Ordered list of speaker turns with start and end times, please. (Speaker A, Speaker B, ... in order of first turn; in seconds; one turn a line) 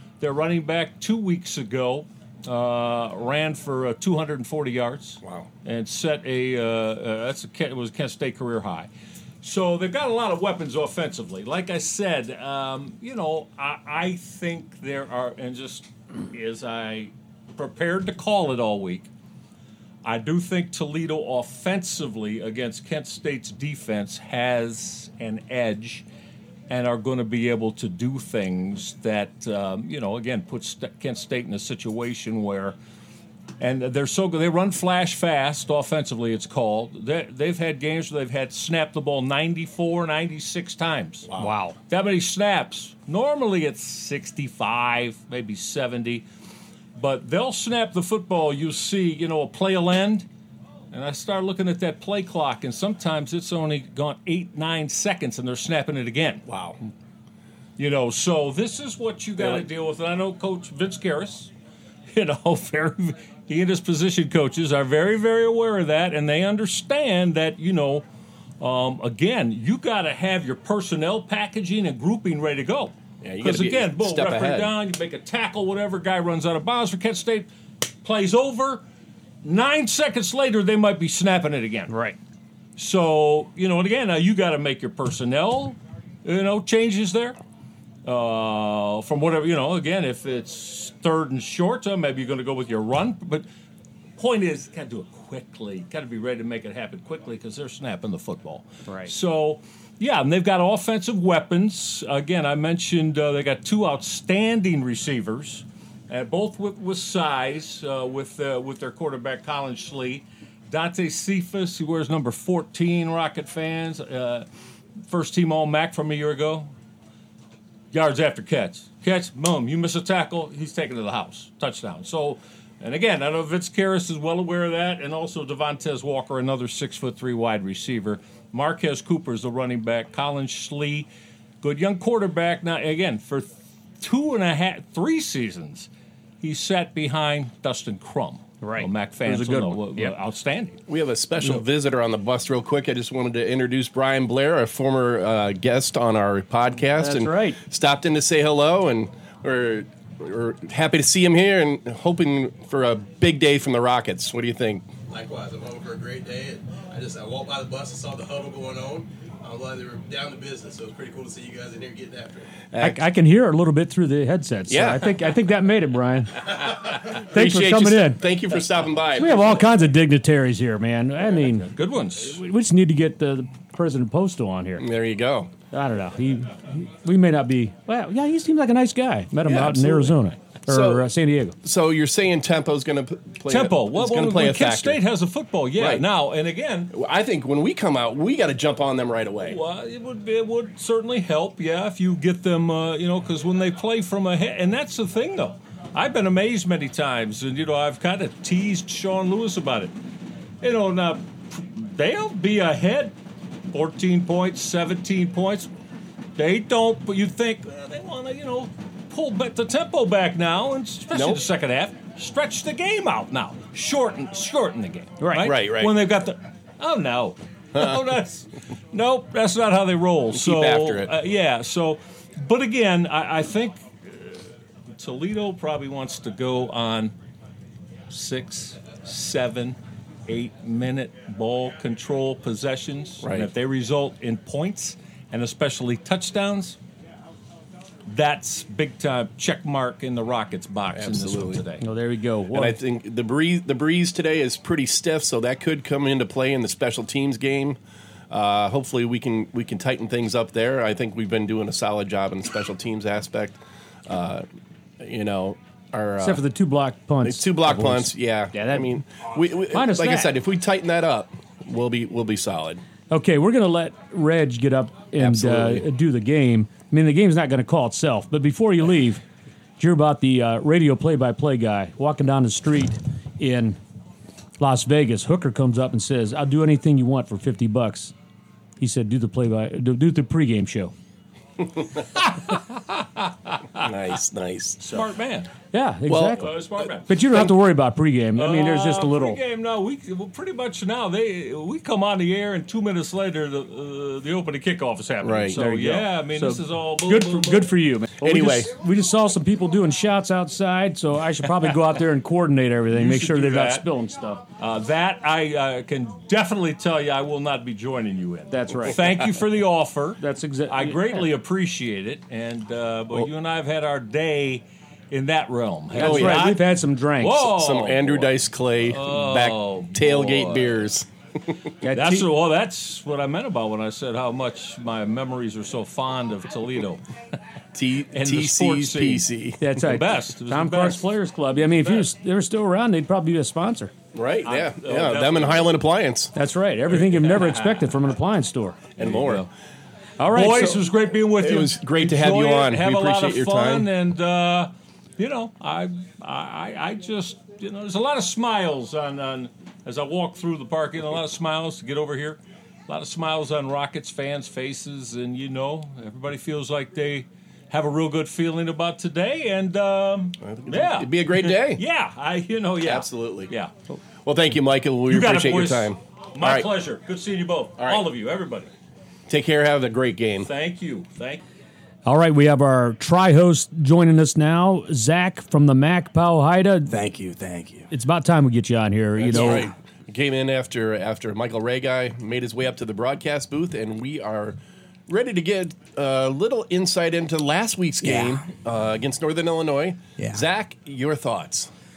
Speaker A: 0.2-8.9
Speaker A: 9.4-19.1
Speaker A: 20.0-26.1
Speaker A: 26.7-32.8
Speaker A: 33.6-41.3
Speaker B: 41.4-41.8
Speaker A: 41.9-46.2
Speaker A: 46.9-50.2
Speaker A: 50.9-56.5
Speaker C: 56.5-56.8
Speaker A: 57.8-61.5
Speaker A: 62.1-68.0
Speaker A: 68.6-77.5
Speaker C: 73.2-74.7
Speaker A: 78.0-78.8
Speaker A: 79.4-81.9
Speaker B: 81.9-82.2
Speaker A: 82.8-87.4
Speaker A: 88.0-93.4
Speaker A: 94.2-114.5
Speaker A: 115.1-116.7
Speaker A: 117.9-131.1
Speaker A: 131.6-135.9
Speaker A: 136.4-140.8
Speaker B: 138.6-140.1
Speaker C: 140.9-155.1
Speaker B: 146.9-147.6
Speaker D: 155.1-162.4
Speaker C: 162.7-163.0
Speaker B: 162.8-166.5
Speaker C: 164.7-165.2
Speaker C: 166.6-169.7
Speaker B: 167.3-168.2
Speaker B: 169.1-171.7
Speaker A: 171.4-172.4
Speaker B: 172.3-174.8
Speaker C: 174.8-175.5
Speaker B: 175.7-181.5
Speaker C: 179.4-180.2
Speaker C: 180.7-181.1
Speaker C: 181.6-185.0
Speaker A: 183.5-186.9
Speaker C: 185.8-186.0
Speaker C: 186.9-189.6
Speaker A: 189.4-199.9
Speaker A: 200.6-203.1
Speaker A: 203.7-205.7
Speaker A: 206.3-224.4
Speaker C: 211.1-211.4
Speaker B: 215.2-215.5
Speaker C: 215.4-215.9
Speaker C: 220.3-221.1
Speaker A: 224.9-227.1
Speaker A: 228.1-236.8
Speaker C: 233.2-233.5
Speaker A: 238.1-241.8
Speaker C: 240.9-241.6
Speaker B: 241.8-242.8
Speaker C: 242.5-247.8
Speaker C: 248.3-254.4
Speaker C: 255.0-256.4
Speaker B: 256.2-259.0
Speaker C: 257.2-262.8
Speaker B: 259.7-260.3
Speaker B: 263.1-269.2
Speaker C: 265.2-265.8
Speaker B: 269.8-273.8
Speaker B: 274.6-278.1
Speaker B: 278.8-280.9
Speaker A: 282.9-283.2
Speaker C: 283.8-284.8
Speaker A: 284.8-285.5
Speaker B: 285.7-286.5
Speaker C: 286.1-287.5
Speaker A: 286.3-287.2
Speaker B: 287.1-289.4
Speaker A: 288.4-297.7
Speaker C: 295.2-295.6
Speaker B: 295.5-304.4
Speaker C: 298.2-298.7
Speaker A: 302.9-303.9
Speaker A: 304.6-316.7
Speaker B: 308.5-309.1
Speaker B: 310.2-311.3
Speaker C: 315.9-316.6
Speaker B: 315.9-317.5
Speaker A: 317.2-318.3
Speaker C: 317.4-321.1
Speaker A: 318.9-320.9
Speaker B: 321.8-322.2
Speaker A: 321.9-327.0
Speaker C: 327.7-329.6
Speaker A: 328.1-331.1
Speaker B: 329.6-333.9
Speaker A: 331.8-332.1
Speaker C: 334.1-336.3
Speaker A: 334.4-335.8
Speaker B: 336.3-338.8
Speaker A: 336.9-337.9
Speaker A: 339.0-339.4
Speaker C: 339.0-339.4
Speaker B: 340.2-340.8
Speaker A: 340.3-363.7
Speaker C: 341.4-343.9
Speaker C: 360.4-361.8
Speaker C: 362.8-363.5
Speaker C: 364.2-366.7
Speaker A: 365.1-368.7
Speaker C: 367.8-368.1
Speaker C: 369.3-370.5
Speaker A: 370.4-371.4
Speaker B: 372.0-376.9
Speaker E: 376.9-377.9
Speaker B: 377.9-379.7
Speaker C: 379.2-384.6
Speaker E: 379.3-379.6
Speaker C: 385.1-391.7
Speaker E: 388.0-388.4
Speaker E: 390.2-390.4